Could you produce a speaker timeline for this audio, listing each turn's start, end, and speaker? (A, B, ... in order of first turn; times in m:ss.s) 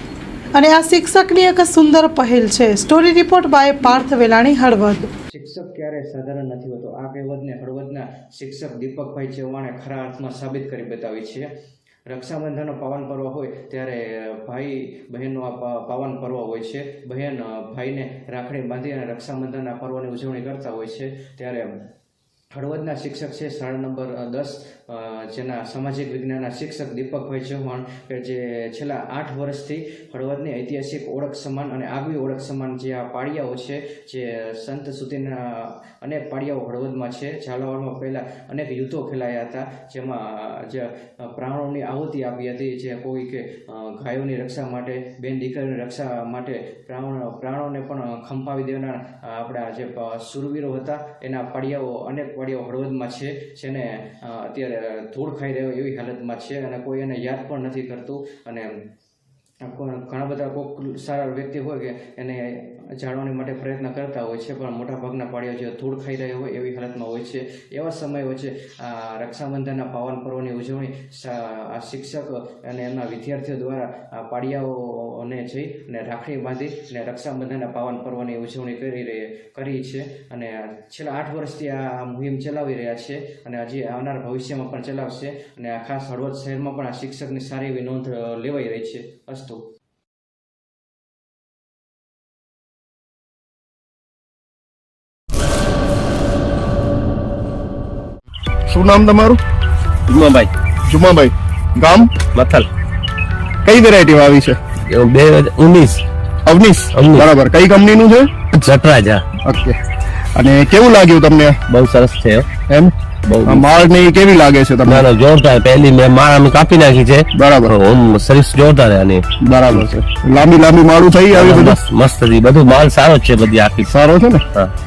0:00.5-0:05.1 A
0:05.3-0:11.5 B
0:12.1-0:21.7 B
0:22.5-0:58.8 B
0:59.6-1:29.6 B
1:38.7-1:39.4 C
1:40.1-1:40.5 D
1:40.9-1:42.1 C
1:42.3-1:42.7 D
1:43.6-1:44.6 C
1:44.9-1:46.0 D
1:46.4-1:48.3 C
1:46.9-1:47.3 D
1:48.5-1:49.2 D
1:49.4-1:49.8 C
1:50.4-1:51.6 C
1:51.7-1:52.5 D
1:52.7-1:52.9 C
1:53.3-1:53.7 D
1:53.4-1:55.1 C
1:54.8-1:59.8 D
1:57.3-1:57.7 C
1:59.4-2:01.8 C
2:01.3-2:03.9 D
2:03.8-2:04.4 C